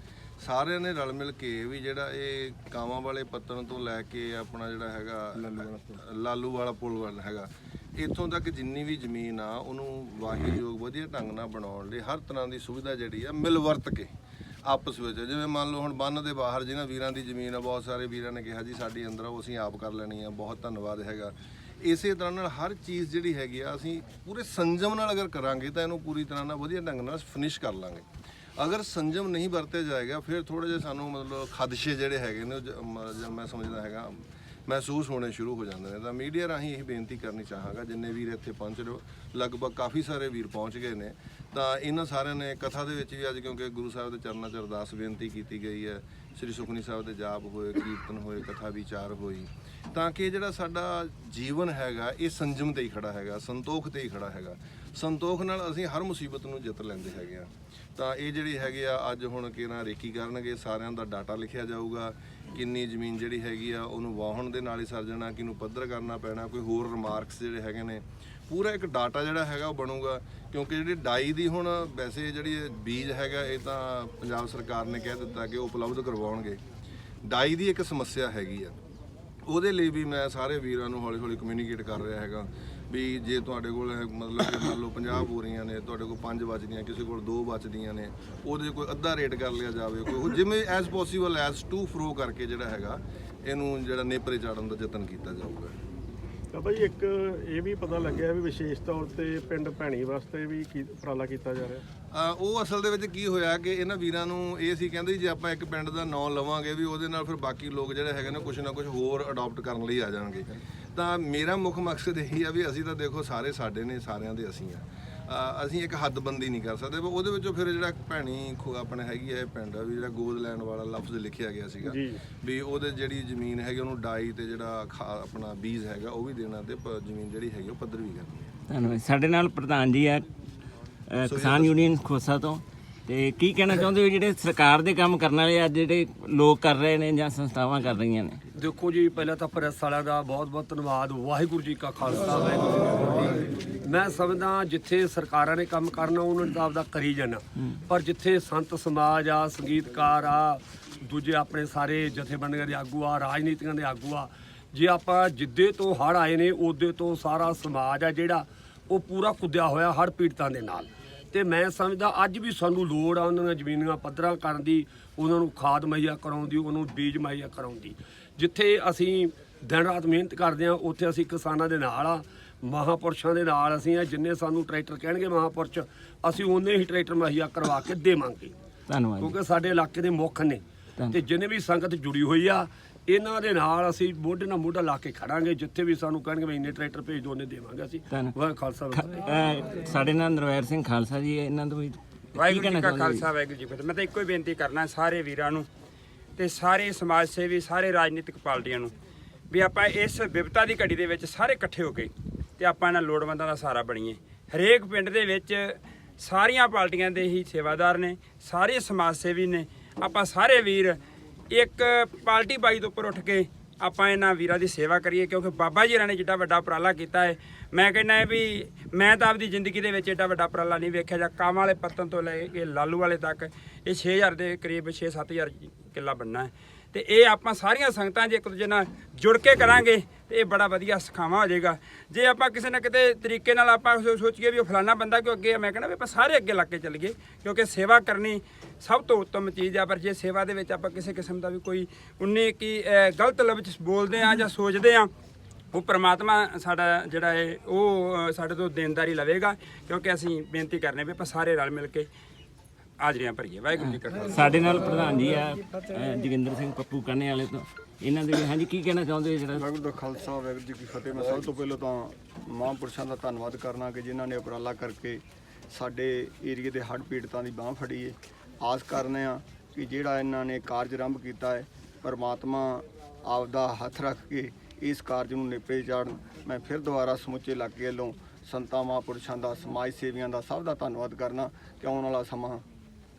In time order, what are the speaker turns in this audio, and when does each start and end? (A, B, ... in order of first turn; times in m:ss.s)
0:00.4-0:14.1 A
0:14.7-0:28.0 A
0:28.6-1:16.6 A
1:17.2-1:18.7 A
1:19.5-1:35.7 A
1:36.5-1:41.8 B
1:42.1-2:08.4 A
2:01.9-2:02.2 B
2:08.7-2:10.3 C
2:11.1-2:18.4 C
2:11.2-2:11.8 A
2:18.6-2:58.6 D
2:58.9-2:59.4 C
2:59.2-3:09.1 D
3:08.9-3:13.3 C
3:12.4-3:15.6 E
3:16.4-3:18.9 E
3:19.5-3:31.0 E
3:31.5-4:05.1 E
4:05.7-4:12.1 E
4:13.0-4:14.8 E
4:14.3-4:19.6 C
4:19.5-4:42.6 F